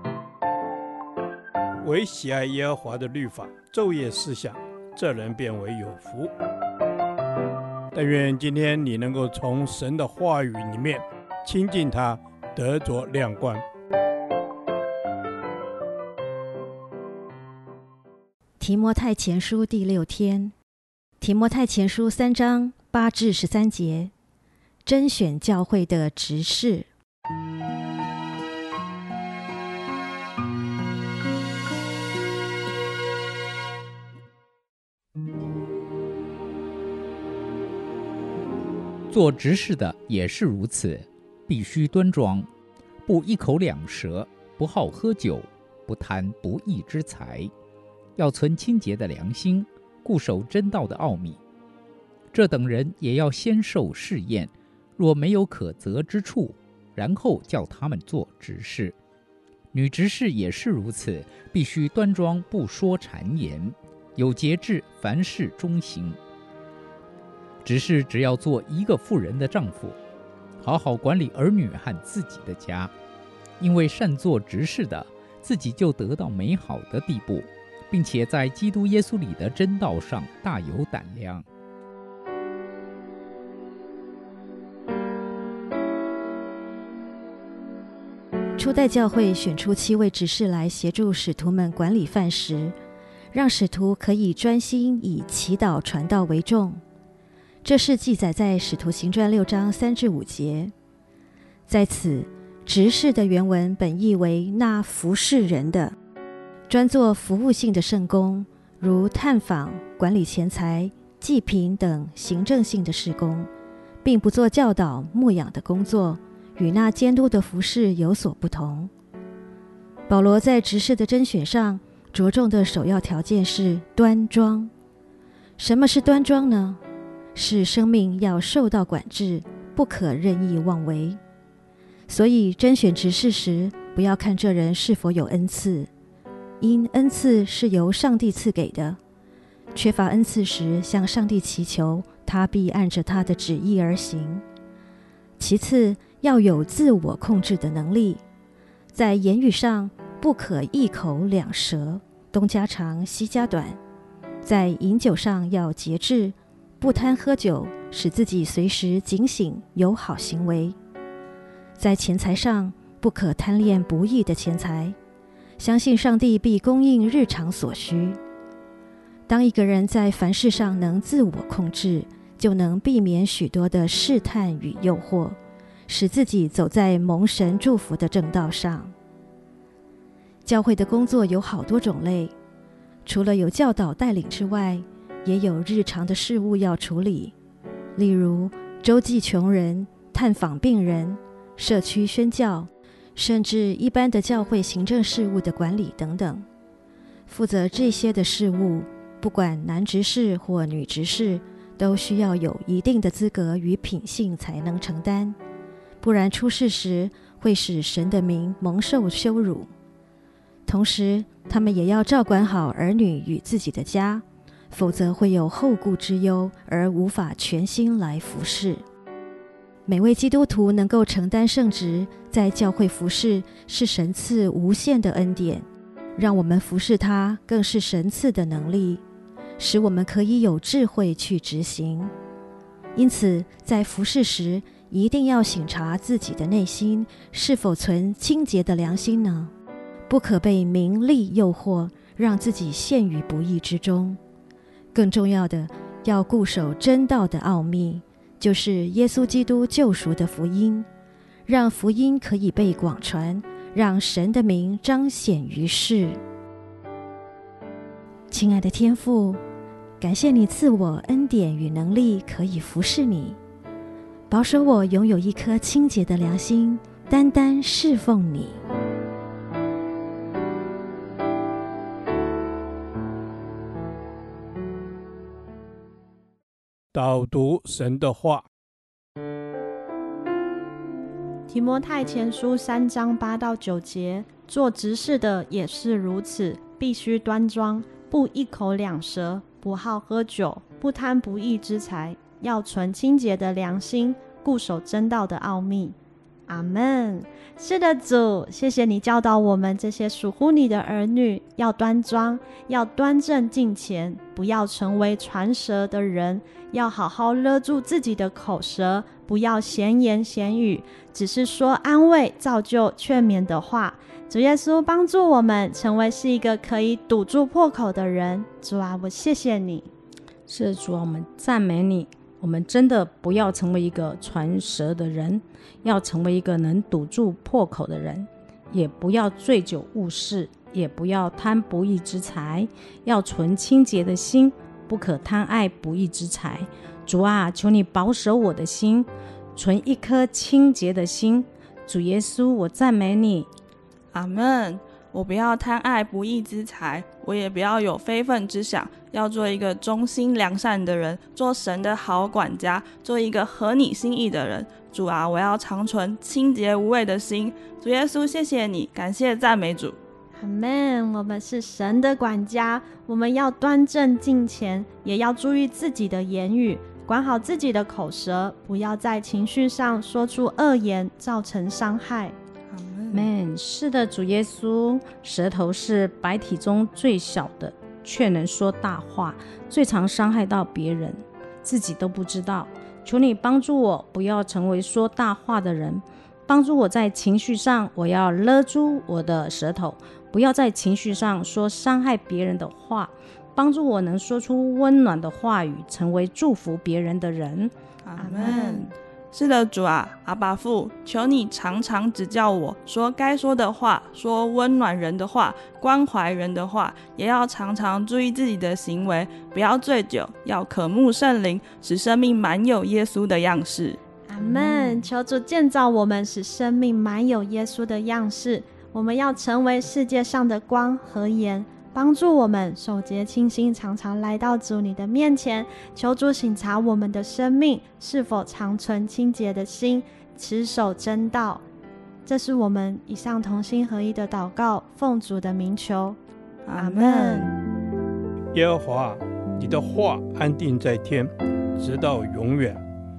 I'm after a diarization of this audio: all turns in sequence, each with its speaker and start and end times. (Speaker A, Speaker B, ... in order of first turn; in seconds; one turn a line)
Speaker A: 1.8-6.3
Speaker A: 7.9-13.6
Speaker B: 18.6-20.5
Speaker B: 21.2-24.1
Speaker B: 24.9-26.9
Speaker C: 39.1-42.5
Speaker C: 43.0-47.5
Speaker C: 48.2-51.4
Speaker C: 52.3-59.0
Speaker C: 59.7-66.2
Speaker C: 67.6-70.0
Speaker C: 70.6-72.9
Speaker C: 73.6-81.5
Speaker B: 88.6-92.8
Speaker B: 93.3-96.8
Speaker B: 97.6-100.7
Speaker B: 101.7-106.0
Speaker B: 106.7-113.5
Speaker B: 114.0-118.9
Speaker B: 120.1-124.7
Speaker B: 125.6-126.8
Speaker B: 127.3-131.2
Speaker B: 132.1-135.9
Speaker B: 136.6-139.0
Speaker B: 139.7-144.4
Speaker B: 145.4-148.2
Speaker B: 148.9-153.8
Speaker B: 154.4-160.8
Speaker B: 161.8-165.0
Speaker B: 165.6-168.2
Speaker B: 169.3-175.4
Speaker B: 175.9-178.9
Speaker B: 180.4-182.3
Speaker B: 183.1-187.3
Speaker B: 188.0-196.4
Speaker B: 197.3-205.4
Speaker B: 206.0-209.7
Speaker B: 210.7-218.8
Speaker B: 219.9-229.0
Speaker B: 229.6-232.1
Speaker B: 232.9-239.5
Speaker B: 240.1-244.2
Speaker B: 244.9-250.9
Speaker B: 251.5-256.2
Speaker B: 258.3-259.4
Speaker B: 260.0-263.4
Speaker B: 264.3-268.6
Speaker A: 276.9-278.4
Speaker D: 281.5-295.9
Speaker D: 296.5-319.9
Speaker E: 320.5-343.5
Speaker F: 344.1-360.0
Speaker D: 360.4-372.4
Speaker F: 372.7-373.3
Speaker E: 373.1-397.7
Speaker F: 398.0-415.0
Speaker D: 398.2-398.9
Speaker D: 414.3-431.6
Speaker D: 432.3-436.2
Speaker F: 436.7-437.5
Speaker D: 436.8-437.5
Speaker A: 438.6-442.8